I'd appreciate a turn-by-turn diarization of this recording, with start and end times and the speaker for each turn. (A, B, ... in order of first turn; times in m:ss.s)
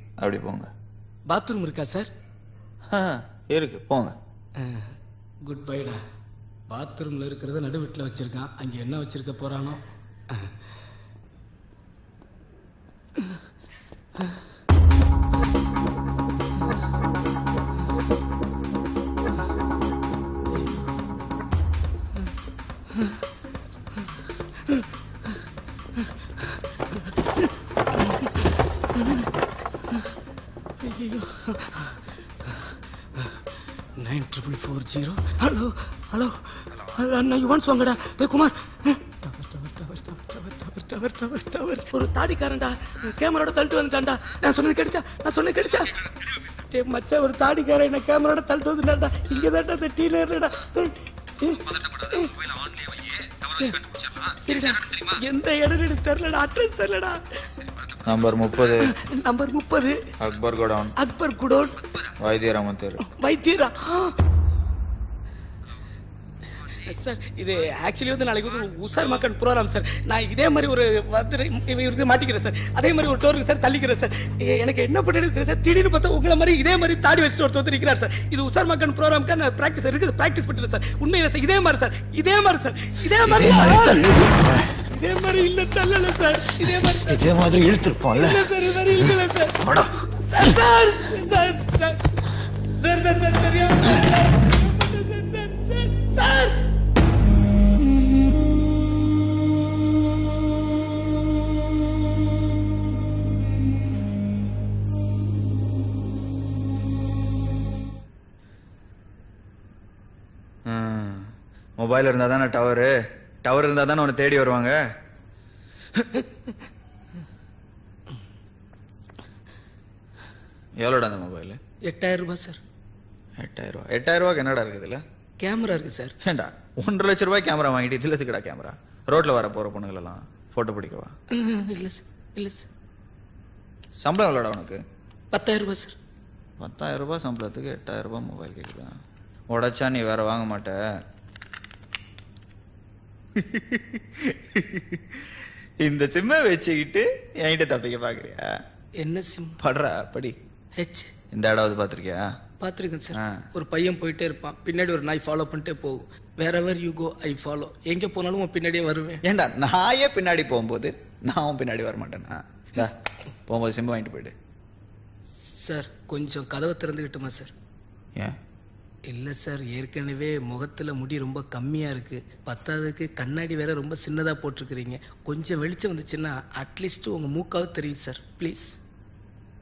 0:00.2-0:00.7 A
0:01.3-0:02.1 B
0:02.9-0:04.1 A
0:04.6-0:04.9 B
0:05.5-0:06.0 B
0:06.7-0:09.8 B
0:30.9-0:31.2 B
0:34.0-0:36.3 B
0:36.9-0:38.5 B
0:39.3-0:45.9 B
0:46.7-0:50.9 B
0:54.4-0:57.2 B
0:58.1-0:58.7 A
0:58.9-0:59.9 B
1:01.0-1:01.8 B
1:02.3-1:02.9 A
1:03.0-1:04.0 B
1:06.8-1:24.1 B
1:23.2-1:24.7 A
1:24.9-1:27.2 B
1:26.9-1:28.4 A
1:28.1-1:29.5 B
1:29.6-1:29.9 A
1:30.3-1:32.0 B
1:32.8-1:36.5 B
1:50.7-1:51.2 A
1:51.8-1:52.8 A
1:53.5-1:54.7 A
2:00.8-2:01.5 A
2:01.9-2:02.6 B
2:03.4-2:05.0 A
2:05.4-2:06.1 B
2:06.2-2:11.0 A
2:11.4-2:12.7 B
2:14.0-2:14.8 A
2:15.3-2:15.9 B
2:16.6-2:18.9 A
2:19.5-2:20.7 A
2:23.4-2:24.0 A
2:25.8-2:28.4 A
2:29.0-2:29.6 B
2:29.6-2:30.3 A
2:30.8-2:31.1 B
2:31.4-2:32.1 A
2:32.6-2:39.2 B
2:39.2-2:42.9 A
2:43.5-2:44.3 A
2:45.6-2:47.5 B
2:49.1-2:58.7 B